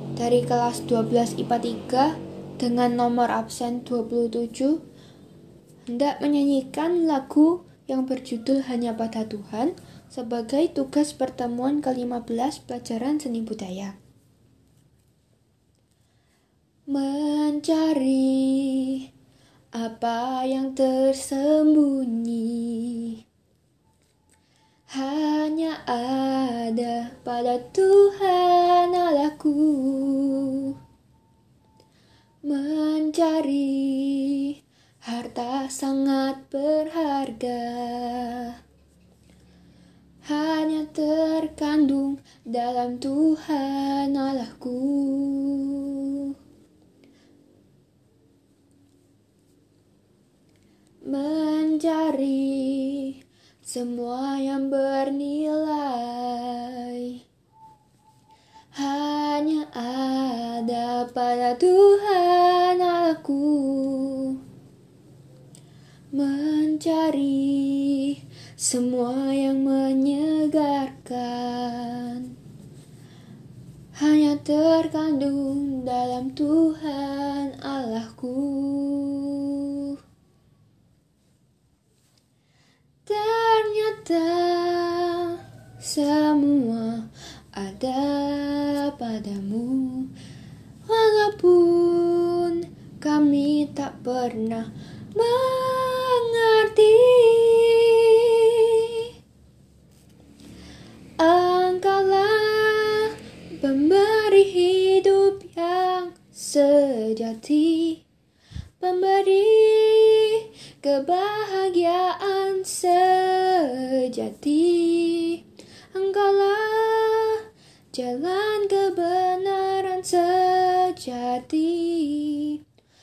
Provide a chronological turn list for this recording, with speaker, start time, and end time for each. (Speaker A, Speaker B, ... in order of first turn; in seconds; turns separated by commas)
Speaker A: 0.2-4.8, Speaker A: 5.9-13.9, Speaker A: 16.9-19.1, Speaker A: 19.7-23.2, Speaker A: 24.9-30.8, Speaker A: 32.4-38.6, Speaker A: 40.2-46.4, Speaker A: 51.1-57.2, Speaker A: 58.7-64.4, Speaker A: 66.1-72.3, Speaker A: 74.0-80.0, Speaker A: 83.0-90.1, Speaker A: 90.8-99.1, Speaker A: 101.2-108.0, Speaker A: 108.8-122.6